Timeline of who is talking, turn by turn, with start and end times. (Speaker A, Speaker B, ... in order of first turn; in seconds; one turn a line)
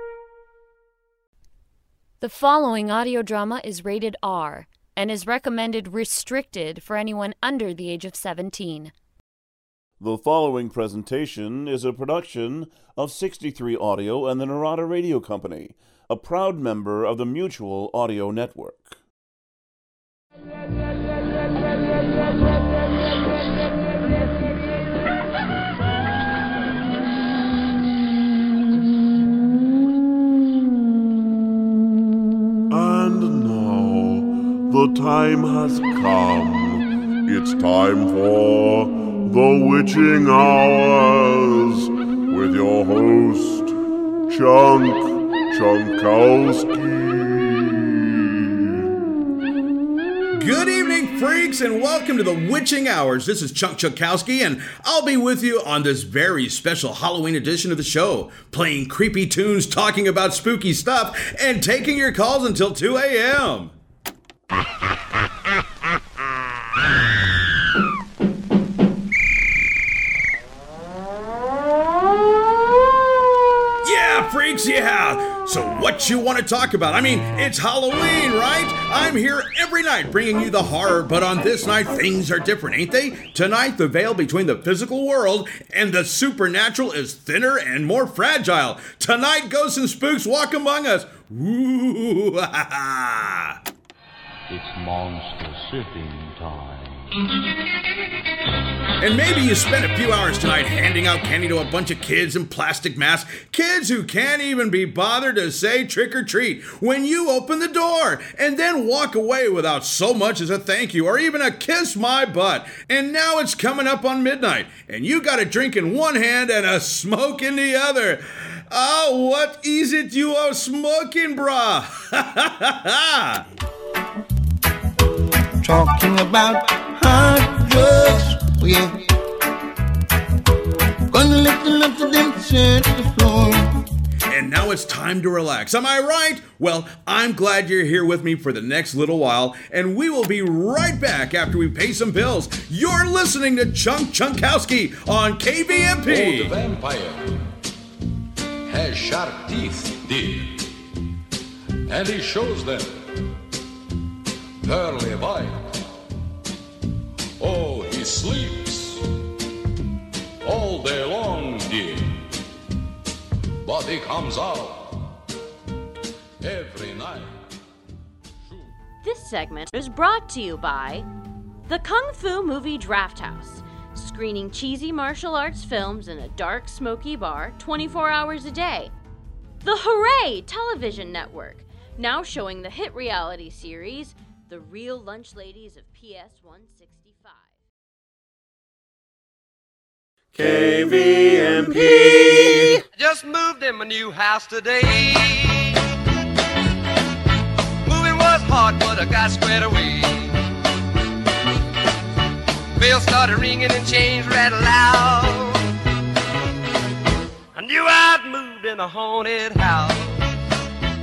Speaker A: 2.2-8.9
Speaker B: 10.0-19.0
Speaker C: 32.7-43.7
Speaker C: 44.3-48.5
Speaker D: 50.3-63.7
Speaker D: 73.8-93.6
Speaker E: 94.5-97.1
Speaker D: 99.0-123.5
Speaker F: 125.6-129.1
Speaker F: 131.1-133.8
Speaker D: 134.3-146.6
Speaker G: 146.1-147.4
Speaker G: 148.7-150.7
Speaker G: 151.9-153.1
Speaker G: 154.6-155.8
Speaker G: 157.4-159.1
Speaker G: 160.4-162.2
Speaker G: 163.6-165.2
Speaker G: 166.4-167.4
Speaker G: 168.5-168.7
Speaker H: 169.0-171.1
Speaker H: 171.7-178.9
Speaker H: 179.6-187.6
Speaker F: 190.4-192.7
Speaker I: 192.9-195.7
Speaker I: 197.8-200.4
Speaker I: 202.8-205.7
Speaker I: 207.5-210.2